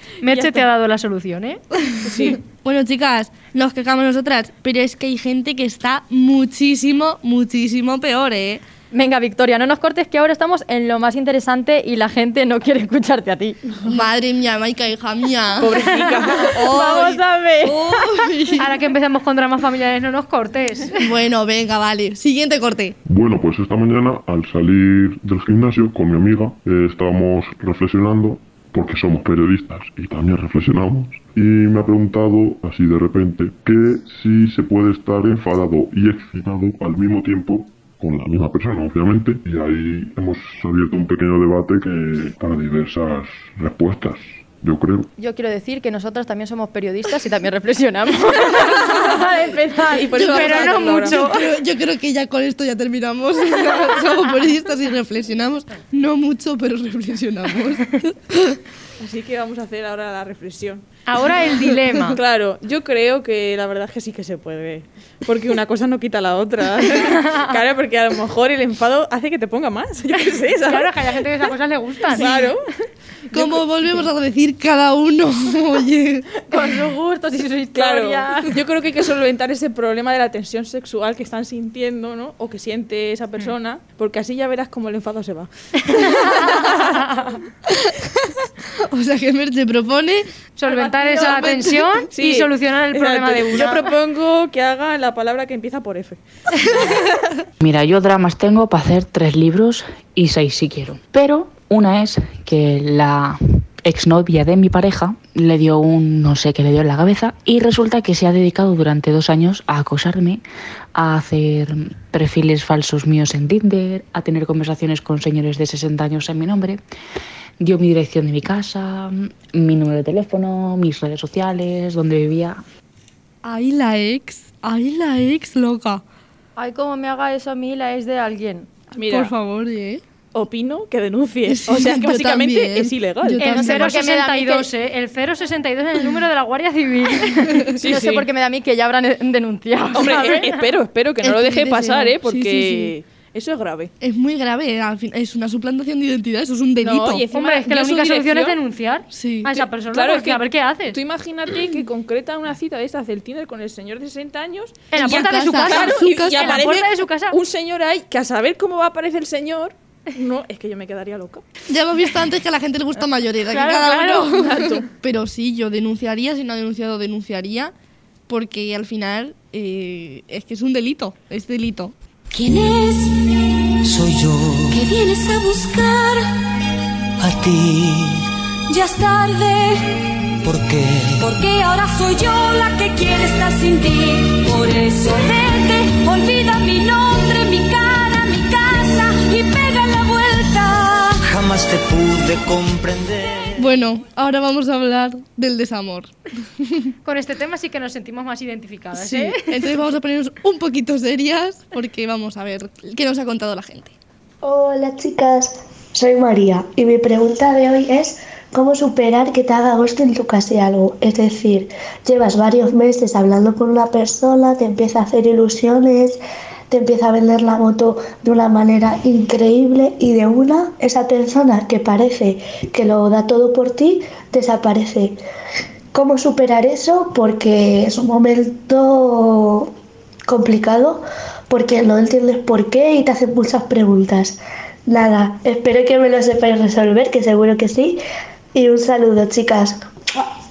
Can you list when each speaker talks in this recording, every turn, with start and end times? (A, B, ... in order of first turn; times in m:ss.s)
0:00.2-0:01.6 A
0:00.3-0:00.6 B
0:01.9-0:08.6 C
0:02.0-0:02.4 B
0:08.9-0:13.7 D
0:13.8-0:15.9 C
0:15.6-0:16.8 B
0:16.4-0:18.0 D
0:16.4-0:18.7 C
0:18.6-0:21.1 A
0:21.0-0:23.0 C
0:23.0-0:45.1 E
0:45.2-0:50.8 D
0:49.8-0:51.2 B
0:50.2-0:51.4 A
0:50.3-0:58.6 C
0:59.0-1:00.8 B
1:01.1-1:02.2 A
1:02.1-1:11.2 B
1:10.7-1:12.4 A
1:12.1-1:12.6 B
1:13.3-1:13.7 B
1:13.3-1:16.3 C
1:16.4-1:18.5 D
1:17.8-1:27.0 B
1:27.7-1:28.1 C
1:28.9-1:30.3 C
1:30.6-1:33.9 A
1:30.7-1:31.5 B
1:31.2-1:31.9 C
1:32.1-1:36.8 B
1:37.6-1:50.4 F
1:51.0-1:56.8 F
1:57.6-2:02.6 F
2:03.4-2:06.0 C
2:06.6-2:08.7 D
2:09.0-2:09.3 B
2:09.0-2:10.0 C
2:10.3-2:13.4 B
2:11.5-2:14.0 C
2:13.4-2:17.7 A
2:13.4-2:14.7 D
2:17.8-2:18.3 B
2:17.8-2:20.6 D
2:19.9-2:23.9 B
2:21.2-2:22.9 C
2:24.0-2:27.2 C
2:26.8-2:28.6 B
2:27.3-2:31.0 A
2:29.1-2:29.5 C
2:29.6-2:41.4 B
2:34.9-2:37.4 A
2:35.0-2:36.8 C
2:41.7-2:47.7 C
2:43.5-2:44.3 A
2:44.3-2:44.9 B
2:48.3-2:51.9 C
2:52.3-2:53.3 G
2:53.9-2:54.8 H
2:54.7-2:56.3 G
2:57.4-2:58.1 H
2:58.7-3:00.4 G
3:01.2-3:11.4 G
3:11.5-3:13.4 H
3:13.6-3:16.9 C
3:17.0-3:19.6 A
3:19.0-3:23.9 C
3:24.4-3:45.2 I
3:45.9-3:49.7 I
3:50.3-3:58.0 I
3:58.5-3:59.9 I